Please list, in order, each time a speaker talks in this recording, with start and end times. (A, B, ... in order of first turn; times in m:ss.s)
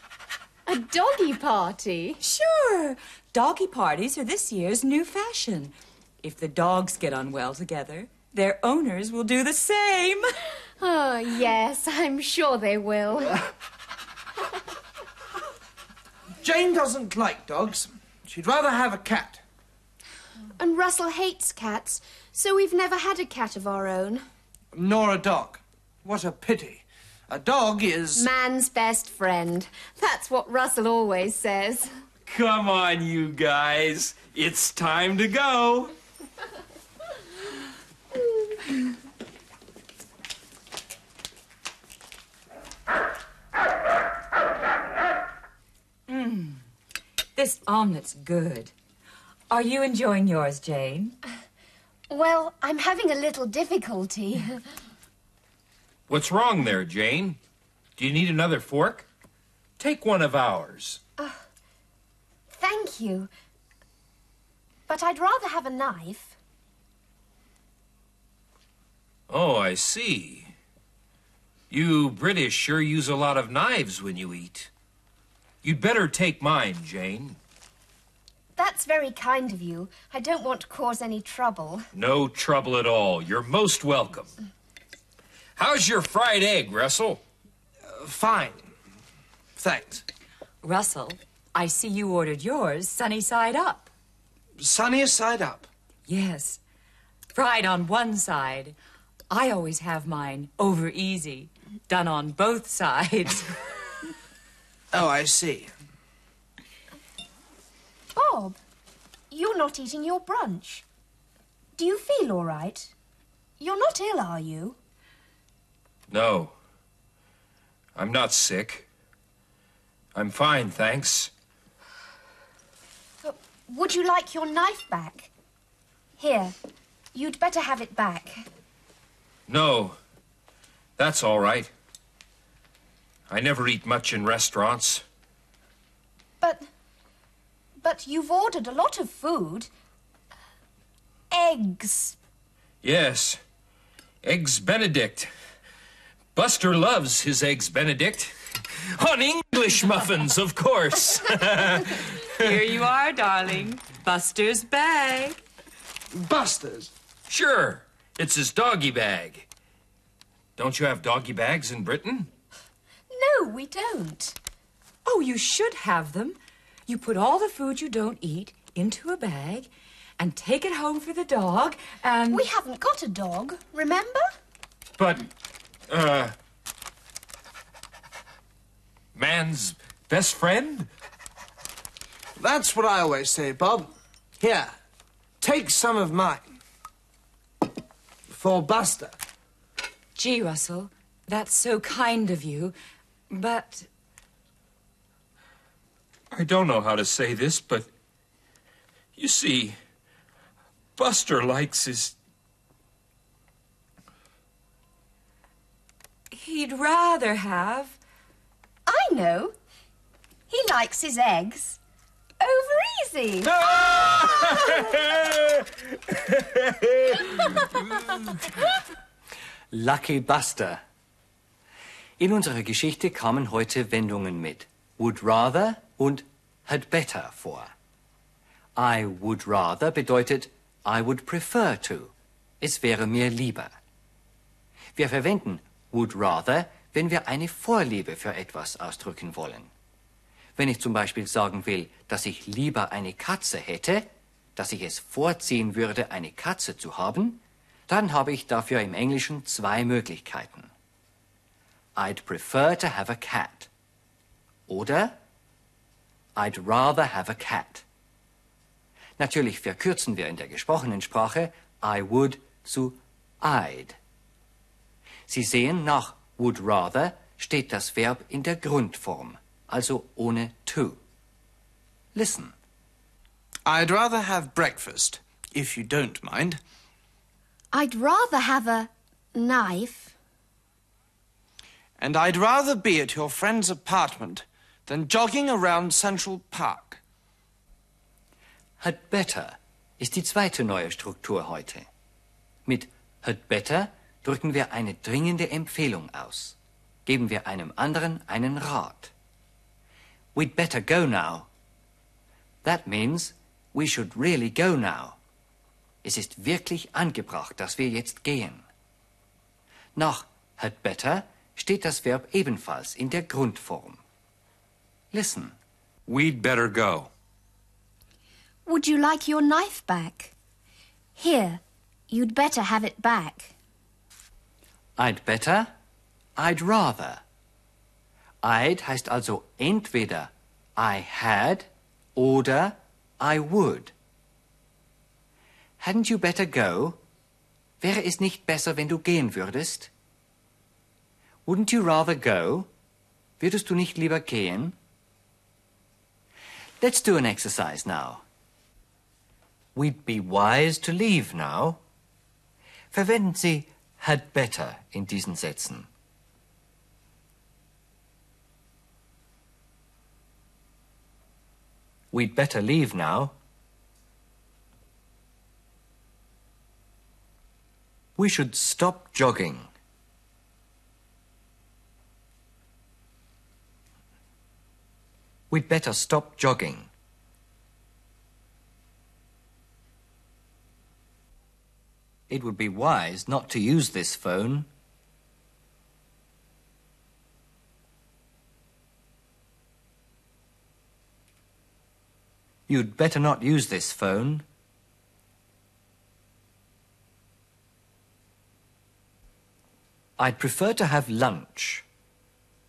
0:00.6-0:02.2 A
0:02.2-0:10.2 B
0:10.8-0:13.5 A
0:16.4-0:19.4 C
0:20.6-0:24.2 A
0:24.7-0:28.3 C
0:28.1-0:31.9 A
0:32.3-0:35.9 D
0:46.1-0:46.6 B
0:47.4-0:48.7 B
0:49.5-0:51.1 B
0:52.1-0:54.6 A
0:56.1-0:57.4 D
0:58.0-0:59.0 D
0:59.8-1:01.0 D
1:02.5-1:03.3 A
1:04.9-1:06.4 A
1:09.3-1:10.5 D
1:11.7-1:14.7 D
1:15.6-1:17.4 D
1:18.6-1:21.9 A
1:21.9-1:24.3 D
1:25.6-1:27.2 D
1:27.9-1:28.7 C
1:29.6-1:30.0 C
1:30.6-1:33.9 B
1:34.6-1:35.7 C
1:36.1-1:36.6 B
1:37.3-1:38.7 B
1:39.3-1:43.6 B
1:44.9-1:45.7 C
1:48.1-1:48.6 A
1:49.3-1:50.8 A
1:51.8-1:52.9 A
1:53.6-1:54.8 A
1:56.1-1:56.5 D
1:58.0-1:58.9 D
2:00.1-2:01.3 D
2:03.2-2:05.3 A
2:06.2-2:06.5 A
2:07.1-2:08.4 A
2:09.5-2:10.0 D
2:11.0-2:11.7 D
2:13.3-2:15.0 D
2:17.8-2:19.7 A
2:21.3-2:22.2 A
2:22.8-2:23.4 D
2:24.2-2:25.3 D
2:26.3-2:32.5 D
2:32.4-2:35.4 B
2:36.1-2:36.9 C
2:37.3-2:39.5 D
2:40.6-2:42.3 D
2:43.1-2:44.4 A
2:45.0-2:52.5 B
2:52.3-2:54.2 A
2:55.0-2:55.3 D
2:55.9-2:56.4 D
2:59.1-3:00.9 D
3:02.4-3:04.7 C
3:05.4-3:06.4 C
3:08.3-3:09.2 C
3:10.2-3:12.7 B
3:13.3-3:13.9 B
3:16.3-3:17.9 D
3:19.2-3:19.8 D
3:21.0-3:22.2 D
3:26.3-3:28.0 B
3:28.9-3:29.5 A
3:30.5-3:31.8 A
3:32.4-3:33.6 A
3:33.6-3:37.7 D
3:39.7-3:40.8 E
3:42.2-3:47.7 E
3:48.8-3:53.7 E
3:54.9-3:59.7 E
4:00.6-4:10.7 E
4:12.0-4:13.7 E
4:14.7-4:15.2 E
4:16.4-4:17.8 E
4:19.2-4:24.0 E
4:25.3-4:31.0 E
4:32.1-4:32.5 E
4:33.6-4:36.6 C
4:37.7-4:40.1 A
4:42.0-4:47.0 C
4:48.8-4:51.9 E
4:52.6-4:59.1 E
5:00.3-5:01.5 E
5:02.6-5:05.2 E
5:06.0-5:08.6 E
5:09.9-5:14.0 E
5:15.1-5:15.6 E
5:16.1-5:17.1 D
5:18.6-5:20.3 A
5:21.2-5:23.5 A
5:25.0-5:25.7 E
5:26.4-5:27.2 E
5:28.4-5:33.9 E
5:35.8-5:37.0 E
5:37.8-5:39.9 E
5:41.4-5:42.7 E
5:43.4-5:44.8 E
5:46.8-5:48.2 E
5:49.7-5:51.8 E
5:52.9-5:55.9 E
6:02.1-6:03.3 E
6:08.2-6:09.7 E
6:15.5-6:16.9 E
6:22.3-6:24.7 E
6:32.7-6:34.4 E
6:40.2-6:41.8 E